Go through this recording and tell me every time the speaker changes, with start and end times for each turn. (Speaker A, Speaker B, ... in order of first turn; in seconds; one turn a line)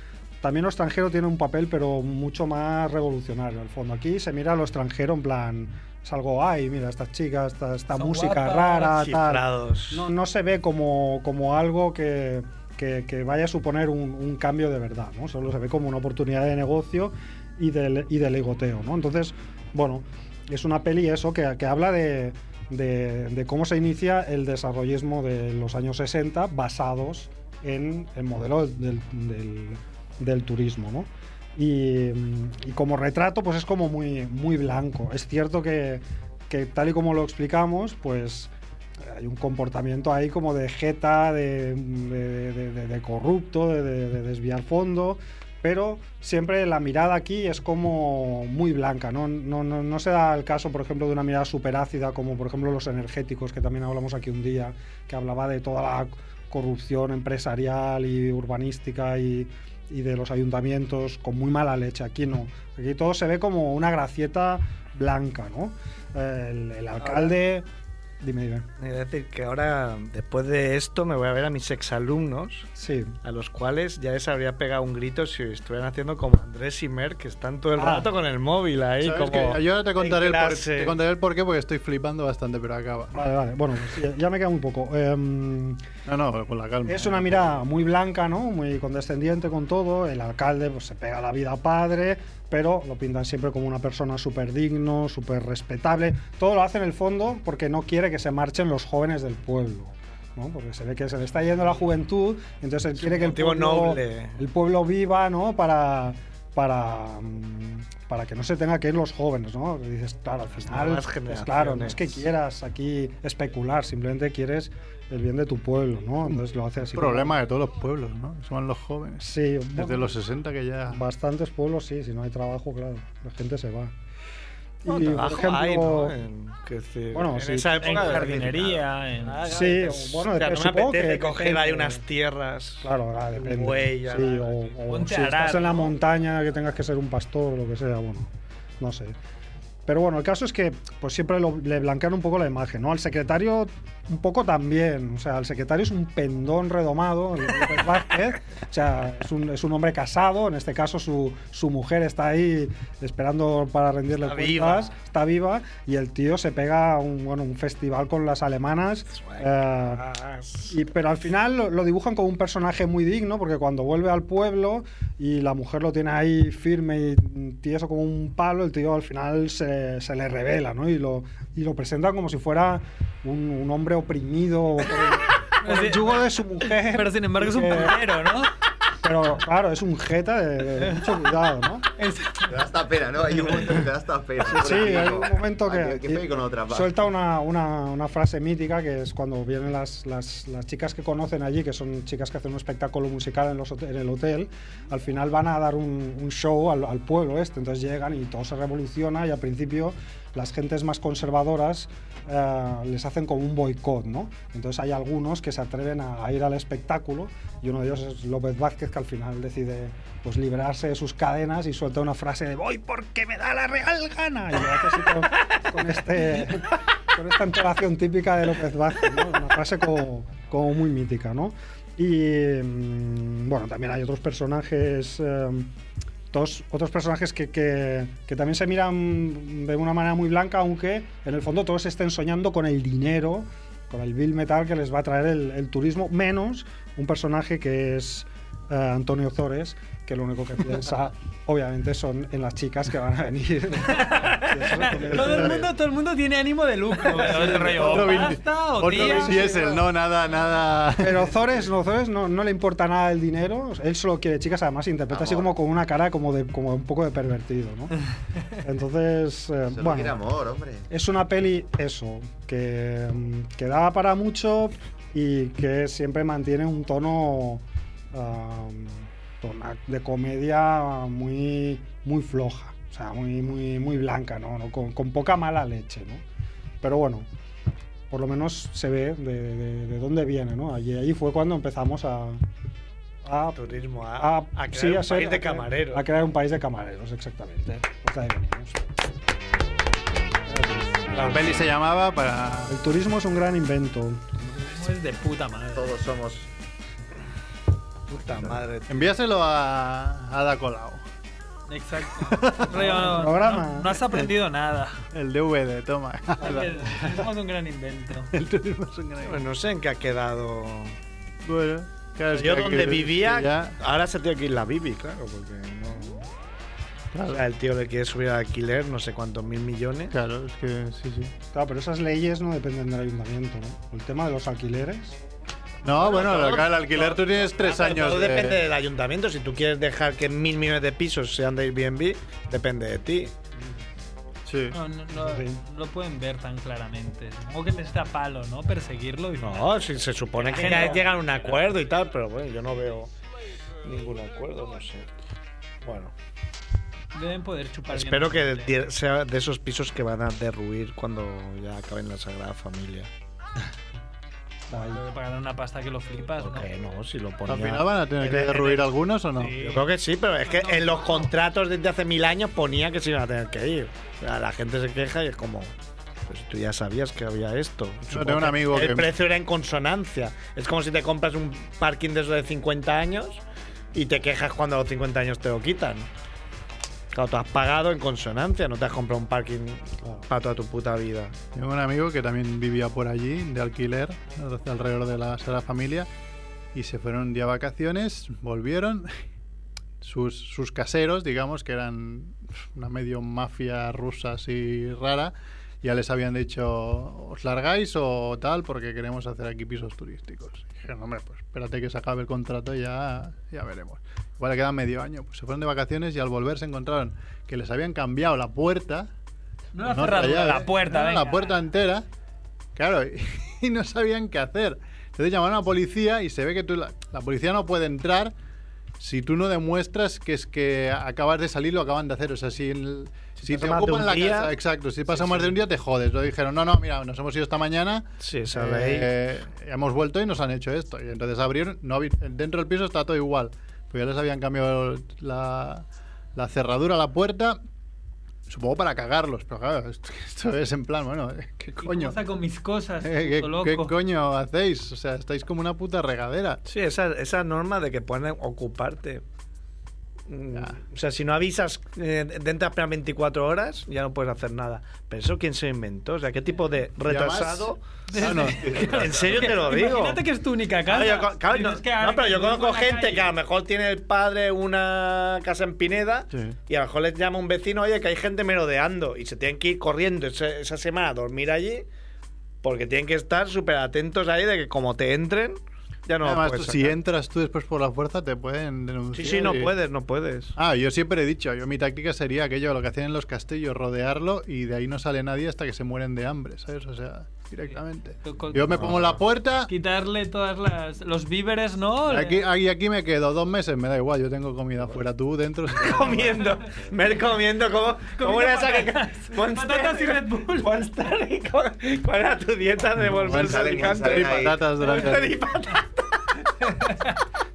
Speaker A: 0.4-67.7
Speaker B: 8.0-8.9
Speaker C: 8.7-10.1
Speaker C: 67.0-67.3
Speaker A: 68.2-68.7
Speaker C: 68.8-72.7
Speaker A: 72.8-73.2
Speaker C: 73.2-81.0
Speaker A: 77.8-78.1
Speaker D: 79.0-83.1
Speaker A: 83.1-85.8
Speaker D: 86.1-87.6
Speaker A: 86.8-117.3
Speaker C: 103.0-104.4
Speaker C: 110.6-112.2
Speaker D: 116.9-121.0
Speaker A: 119.2-120.2
Speaker A: 120.8-123.9
Speaker A: 124.8-126.2
Speaker C: 124.9-134.7
Speaker A: 127.1-128.5
Speaker B: 127.8-129.4
Speaker A: 129.4-132.0
Speaker A: 132.8-139.2
Speaker B: 134.9-135.9
Speaker A: 139.8-160.0
Speaker C: 154.1-154.9
Speaker C: 159.1-160.7
Speaker A: 160.7-178.0
Speaker B: 175.6-176.2
Speaker B: 176.8-178.5
Speaker A: 179.0-181.8
Speaker B: 182.0-182.6
Speaker E: 182.5-186.9
Speaker A: 184.4-225.7
Speaker A: 226.3-245.7
Speaker B: 243.9-249.8
Speaker D: 245.1-245.5
Speaker D: 247.2-251.3
Speaker C: 247.4-248.1
Speaker A: 249.0-249.7
Speaker A: 251.0-257.9
Speaker E: 255.1-255.5
Speaker A: 258.6-260.2
Speaker E: 259.7-260.9
Speaker A: 260.9-276.2
Speaker A: 276.8-277.3
Speaker A: 278.1-282.4
Speaker A: 283.2-283.6
Speaker C: 283.5-286.0
Speaker A: 284.2-289.0
Speaker A: 290.4-291.5
Speaker D: 291.1-292.7
Speaker A: 292.7-294.3
Speaker B: 294.5-295.9
Speaker E: 295.7-296.5
Speaker C: 298.1-299.1
Speaker D: 298.9-301.0
Speaker B: 301.7-305.0
Speaker D: 302.1-303.0
Speaker A: 302.7-303.9
Speaker D: 305.1-307.1
Speaker B: 306.4-308.3
Speaker D: 308.3-309.4
Speaker C: 309.2-311.0
Speaker D: 311.4-313.8
Speaker C: 312.3-316.3
Speaker D: 317.1-317.4
Speaker C: 317.3-320.1
Speaker D: 320.1-321.3
Speaker A: 321.5-325.2
Speaker D: 325.8-328.6
Speaker C: 326.0-333.3
Speaker D: 334.4-334.8
Speaker B: 334.7-339.8
Speaker A: 335.1-335.6
Speaker C: 339.4-343.1
Speaker B: 340.4-341.1
Speaker C: 343.8-345.1
Speaker C: 345.8-346.1
Speaker B: 347.1-348.7
Speaker C: 347.9-353.1
Speaker A: 354.7-355.0
Speaker B: 354.7-356.6
Speaker C: 356.4-358.9
Speaker D: 357.5-359.6
Speaker B: 359.4-359.8
Speaker C: 359.6-365.7
Speaker B: 360.4-361.3
Speaker C: 366.3-373.4
Speaker D: 368.1-369.1
Speaker C: 373.9-376.1
Speaker C: 377.1-381.4
Speaker D: 381.5-386.1
Speaker D: 386.7-389.1
Speaker D: 390.0-409.1
Speaker B: 409.7-411.6
Speaker D: 409.8-412.0
Speaker D: 412.8-418.3
Speaker D: 419.0-435.8
Speaker C: 423.4-424.5
Speaker C: 425.1-425.5
Speaker C: 428.2-429.1
Speaker D: 436.4-437.6
Speaker D: 438.5-442.2
Speaker B: 441.8-443.9
Speaker D: 443.0-446.6
Speaker C: 446.6-449.2
Speaker C: 450.3-457.8
Speaker D: 457.1-459.4
Speaker B: 458.1-463.3
Speaker C: 458.7-460.2
Speaker C: 460.9-471.9
Speaker C: 472.6-476.9
Speaker D: 476.2-479.7
Speaker C: 479.1-480.6
Speaker D: 480.6-489.7
Speaker B: 487.7-492.4
Speaker D: 492.1-496.5
Speaker C: 495.7-506.0
Speaker B: 496.4-496.6
Speaker B: 498.1-500.7
Speaker D: 503.0-505.4
Speaker E: 503.3-504.6
Speaker B: 506.6-507.2